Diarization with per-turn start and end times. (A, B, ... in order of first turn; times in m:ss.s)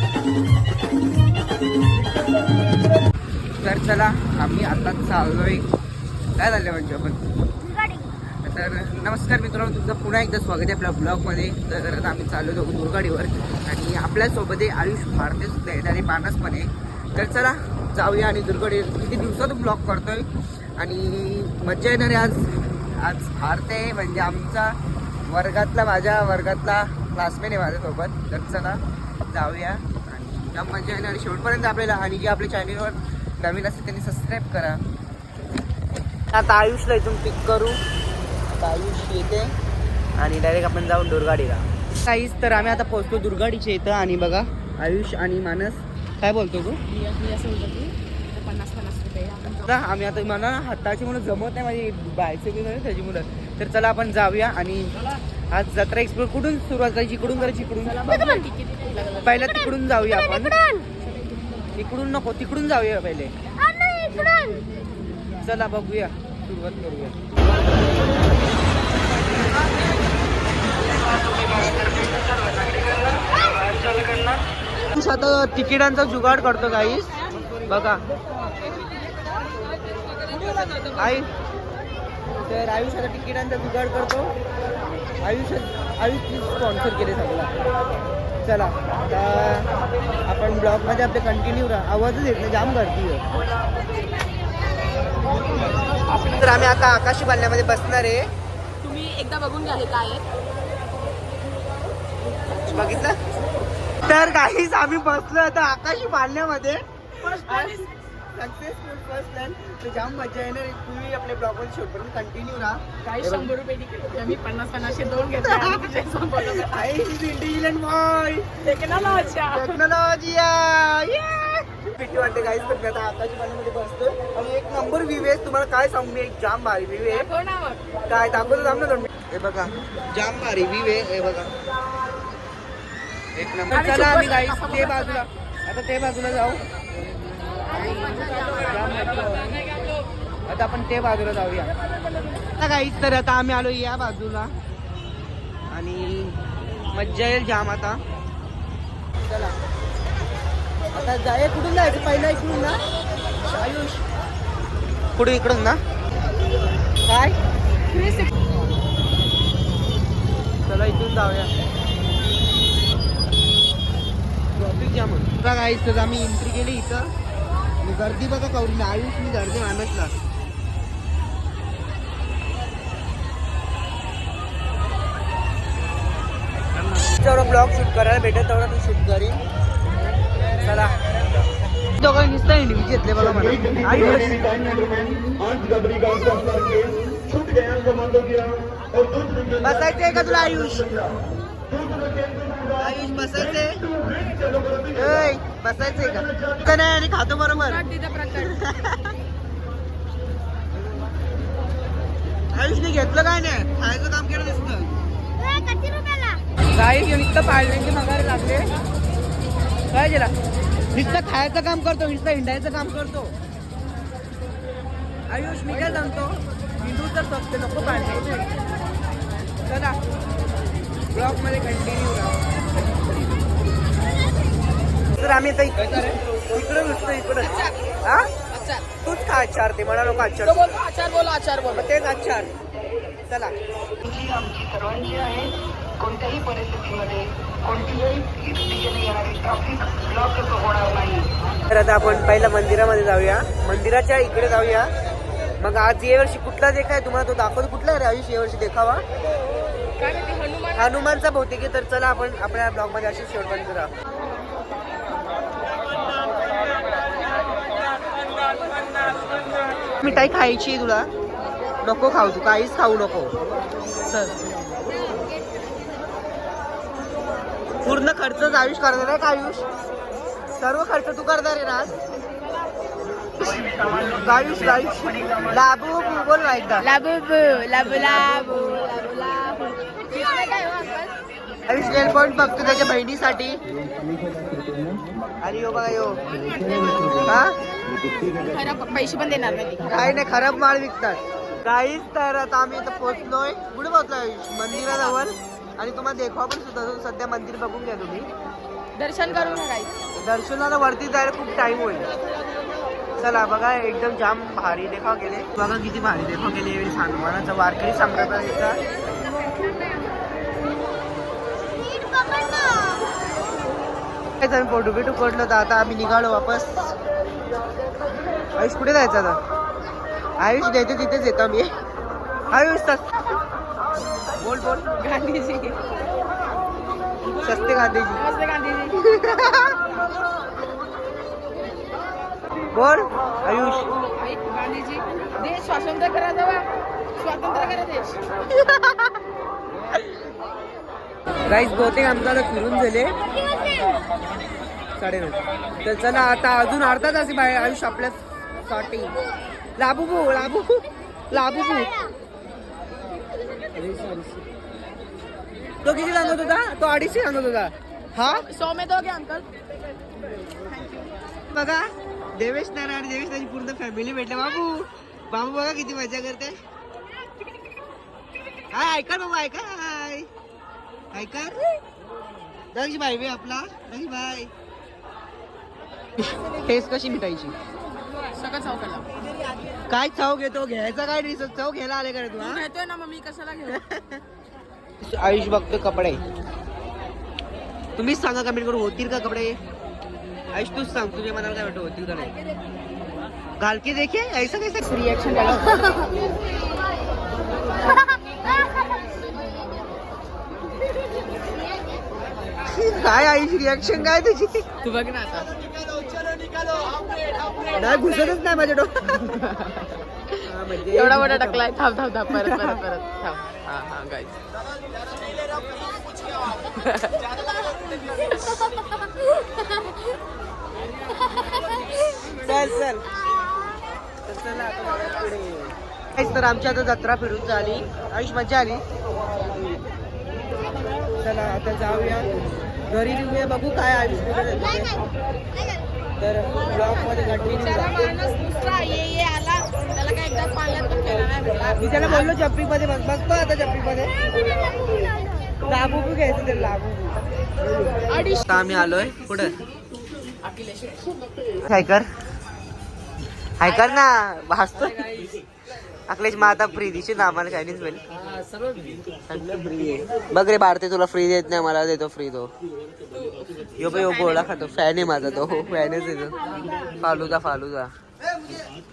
0:03.6-0:05.6 A
0:06.4-0:07.2 A
0:07.9-0:20.3 A
0:20.8-0:24.7 A
0:25.3-0:34.8 A
0:36.3-0:37.8 A
0:38.5-0:39.5 A
0:40.2-0:46.8 A
0:46.9-0:49.8 B
0:49.6-0:58.4 A
0:57.8-0:59.4 B
0:59.2-1:00.6 A
1:01.8-1:03.3 A
1:05.4-1:07.2 A
1:10.9-1:14.4 C
1:14.9-1:18.0 A
1:20.3-1:21.3 A
1:22.4-1:24.3 A
1:25.2-1:27.6 A
1:28.4-1:29.7 A
1:30.3-1:33.2 A
1:36.1-1:36.6 B
1:36.3-1:38.2 A
1:38.8-1:40.3 B
1:42.6-1:43.2 A
1:44.0-1:47.8 A
1:47.2-1:47.9 B
1:48.4-1:53.5 A
1:53.0-1:56.7 B
1:55.4-2:07.3 A
1:58.6-1:59.8 B
2:07.1-2:07.8 B
2:08.1-2:11.5 A
2:13.4-2:16.6 A
2:13.7-2:15.2 B
2:17.7-2:18.9 B
2:17.7-2:19.6 A
2:20.5-2:21.7 A
2:22.6-2:24.5 A
2:25.7-2:26.4 A
2:26.9-2:28.0 A
2:29.2-2:29.5 A
2:30.9-2:32.8 A
2:33.5-2:34.0 A
2:35.2-2:35.8 A
2:37.1-2:37.4 A
2:37.9-2:38.3 B
2:40.7-2:41.5 A
2:44.6-2:47.1 A
2:47.8-2:50.1 A
2:57.1-2:59.4 A
3:00.6-3:01.2 A
3:02.0-3:04.6 A
3:09.6-3:11.0 A
3:12.8-3:13.9 A
3:14.9-3:19.1 A
3:17.6-3:18.6 B
3:22.5-3:24.9 A
3:26.7-3:28.7 A
3:29.9-3:30.3 A
3:30.9-3:33.3 A
3:35.3-3:38.4 A
3:39.7-3:40.0 A
3:41.1-3:43.3 A
3:45.2-3:48.3 A
3:47.4-3:47.9 B
3:48.5-3:48.9 B
3:49.0-3:50.7 A
3:50.4-3:51.9 B
3:51.7-3:52.5 A
3:53.3-3:53.5 A
3:54.0-4:01.3 C
4:01.7-4:04.9 A
4:05.6-4:09.0 A
4:10.0-4:10.9 B
4:10.7-4:13.9 A
4:20.0-4:21.1 A
4:21.8-4:23.3 A
4:24.1-4:24.4 A
4:27.8-4:29.6 A
4:30.6-4:31.9 A
4:33.4-4:36.8 A
4:36.8-4:41.1 B
4:41.7-4:43.6 A
4:45.4-4:46.2 A
4:46.3-4:47.5 B
4:47.2-4:47.6 A
4:48.2-4:50.2 B
4:49.9-4:58.3 A
4:59.0-5:00.0 B
4:59.3-4:59.6 A
5:00.2-5:02.1 A
5:03.2-5:08.8 A
5:14.4-5:16.8 A
5:18.6-5:19.4 A
5:20.4-5:21.7 A
5:22.5-5:23.0 A
5:24.4-5:24.9 A
5:25.0-5:25.8 B
5:27.4-5:28.2 A
5:28.1-5:29.1 B
5:29.0-5:29.8 A
5:32.7-5:33.9 A
5:34.0-5:36.7 B
5:37.2-5:38.2 B
5:38.5-5:39.1 A
5:41.5-5:43.2 A
5:45.0-5:49.1 A
5:49.8-5:51.9 A
5:53.7-5:54.4 A
5:55.8-5:58.4 A
5:58.2-5:59.5 B
6:01.5-6:06.6 A
6:08.7-6:10.3 A
6:11.1-6:11.6 A
6:12.7-6:14.5 A
6:16.2-6:17.5 A
6:18.3-6:19.1 B
6:19.9-6:22.6 A
6:22.4-6:23.8 B
6:23.7-6:24.2 A
6:25.0-6:26.2 A
6:28.0-6:29.6 A
6:30.5-6:32.3 A
6:33.6-6:34.8 A
6:34.8-6:36.1 B
6:35.5-6:36.1 A
6:42.6-6:44.6 A
6:44.8-6:45.5 B
6:47.7-6:49.2 A
6:49.1-6:54.4 B
6:50.4-6:51.7 A
6:52.3-6:52.8 A
6:56.6-6:57.4 B
6:58.0-6:59.8 B
7:02.2-7:03.0 A
7:04.2-7:08.8 A
7:11.2-7:12.3 A
7:12.9-7:14.9 A
7:16.2-7:17.9 A
7:17.5-7:22.3 B
7:21.8-7:24.1 A
7:25.6-7:27.2 A
7:28.1-7:28.7 B
7:28.4-7:29.6 A
7:30.4-7:31.3 B
7:31.6-7:32.1 A
7:33.6-7:35.2 A
7:33.6-7:34.0 B
7:36.1-7:38.0 A
7:39.3-7:42.5 A
7:43.1-7:44.5 B
7:43.8-7:46.4 A
7:46.9-7:47.9 A